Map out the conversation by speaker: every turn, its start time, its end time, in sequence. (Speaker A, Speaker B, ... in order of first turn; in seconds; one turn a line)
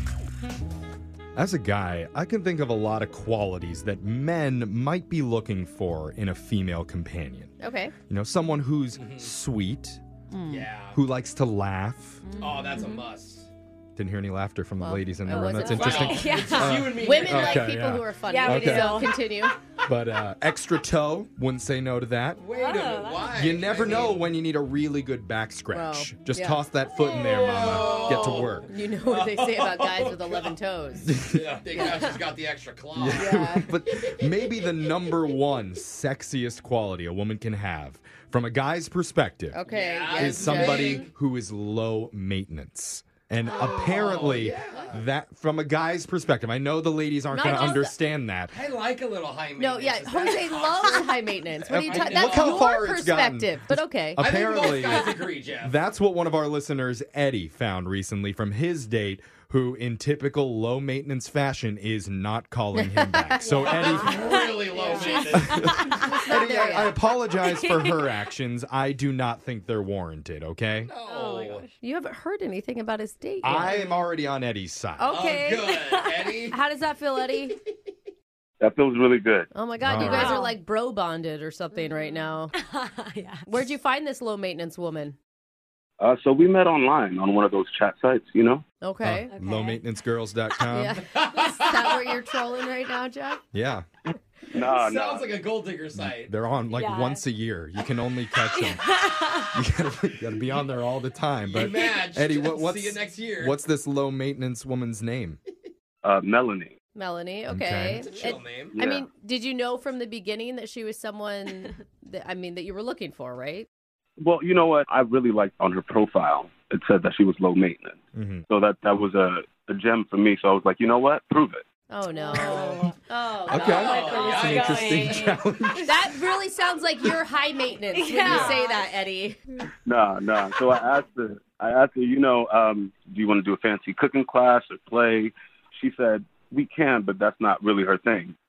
Speaker A: 1.4-7.5
Speaker B: 7.6-7.9
Speaker A: 8.1-10.0
Speaker C: 8.9-9.3
Speaker B: 10.3-10.7
Speaker C: 10.5-11.0
Speaker A: 10.9-12.2
Speaker B: 12.2-13.0
Speaker C: 12.4-13.5
Speaker A: 14.0-19.1
Speaker B: 14.8-19.6
Speaker D: 15.6-16.8
Speaker C: 15.7-17.7
Speaker D: 18.2-19.2
Speaker A: 19.9-22.4
Speaker C: 22.4-24.3
Speaker D: 22.5-23.5
Speaker A: 23.3-28.7
Speaker B: 25.7-26.6
Speaker C: 27.0-30.6
Speaker D: 27.7-28.2
Speaker B: 28.0-31.1
Speaker A: 31.1-31.5
Speaker C: 31.2-33.3
Speaker B: 31.8-32.1
Speaker A: 32.9-39.6
Speaker B: 33.1-33.7
Speaker C: 34.0-35.1
Speaker B: 39.5-41.1
Speaker C: 39.7-41.1
Speaker A: 40.2-48.5
Speaker C: 43.5-45.0
Speaker D: 43.6-44.0
Speaker B: 47.3-48.0
Speaker C: 48.5-52.6
Speaker B: 49.6-54.3
Speaker A: 51.7-64.4
Speaker C: 54.2-55.8
Speaker B: 62.8-67.0
Speaker D: 63.4-66.1
Speaker C: 63.6-65.7
Speaker A: 65.3-70.9
Speaker D: 67.5-68.1
Speaker C: 70.8-71.7
Speaker D: 71.0-71.7
Speaker B: 71.8-73.8
Speaker A: 73.4-75.2
Speaker B: 75.0-75.8
Speaker C: 75.1-76.6
Speaker B: 76.5-77.6
Speaker E: 78.6-79.5
Speaker B: 79.5-82.5
Speaker A: 79.8-80.4
Speaker D: 80.0-80.5
Speaker D: 81.8-83.6
Speaker B: 83.5-85.2
Speaker E: 86.0-88.6
Speaker B: 88.8-89.3
Speaker A: 89.0-91.0
Speaker D: 89.3-89.8
Speaker B: 90.7-93.4
Speaker C: 91.1-92.2
Speaker A: 93.5-93.9
Speaker E: 94.5-95.3
Speaker C: 94.6-96.3
Speaker A: 96.0-98.9
Speaker D: 96.7-97.2
Speaker D: 98.5-99.6
Speaker A: 99.5-105.4
Speaker C: 101.4-103.6
Speaker E: 106.0-106.7
Speaker B: 107.0-113.7
Speaker A: 107.5-108.0
Speaker C: 108.1-108.8
Speaker E: 108.7-109.1
Speaker E: 114.2-121.6
Speaker A: 118.2-118.4
Speaker B: 121.9-125.0
Speaker D: 122.2-122.9
Speaker A: 123.5-126.1
Speaker D: 123.5-125.4
Speaker C: 123.6-125.3
Speaker B: 125.8-129.4
Speaker D: 127.9-128.8
Speaker C: 128.3-128.6
Speaker E: 129.9-138.3